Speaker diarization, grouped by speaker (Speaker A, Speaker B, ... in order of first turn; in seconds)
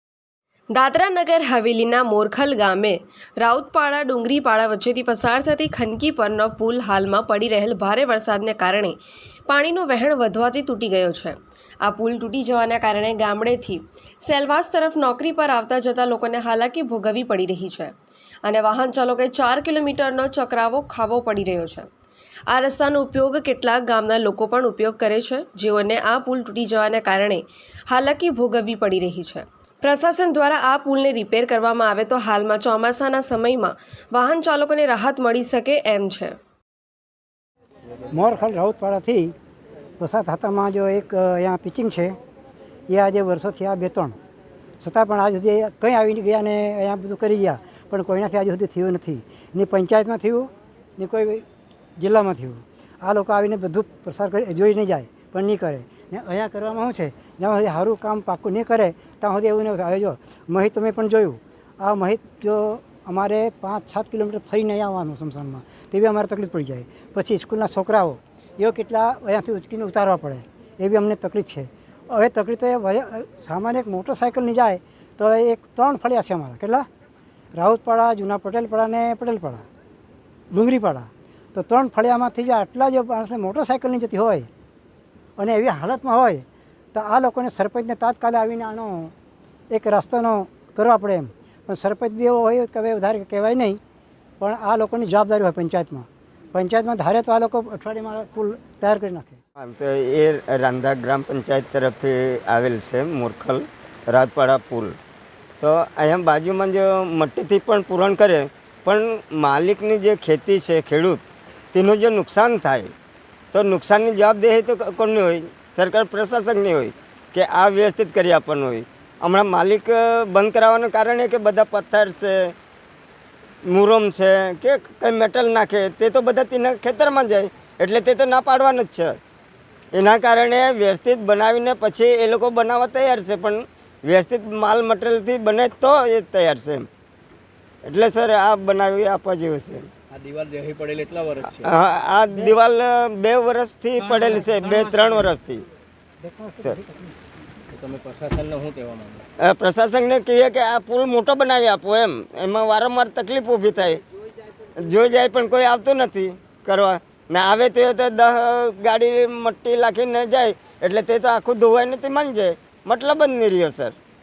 Speaker A: 0.7-21.9, 22.5-36.4
Speaker B: 38.1-39.3, 40.0-42.2, 42.9-44.2, 44.8-51.5, 52.0-76.9, 77.5-79.6, 80.5-84.5, 85.4-89.1, 89.7-93.8, 94.4-99.4, 146.2-147.2
Speaker C: 99.6-105.0, 105.6-111.2, 111.7-112.9, 113.5-122.5, 123.7-129.2, 129.9-136.9, 137.8-139.9, 141.6-145.7, 149.4-154.0, 154.8-163.9
Speaker D: 140.1-141.7, 147.7-149.2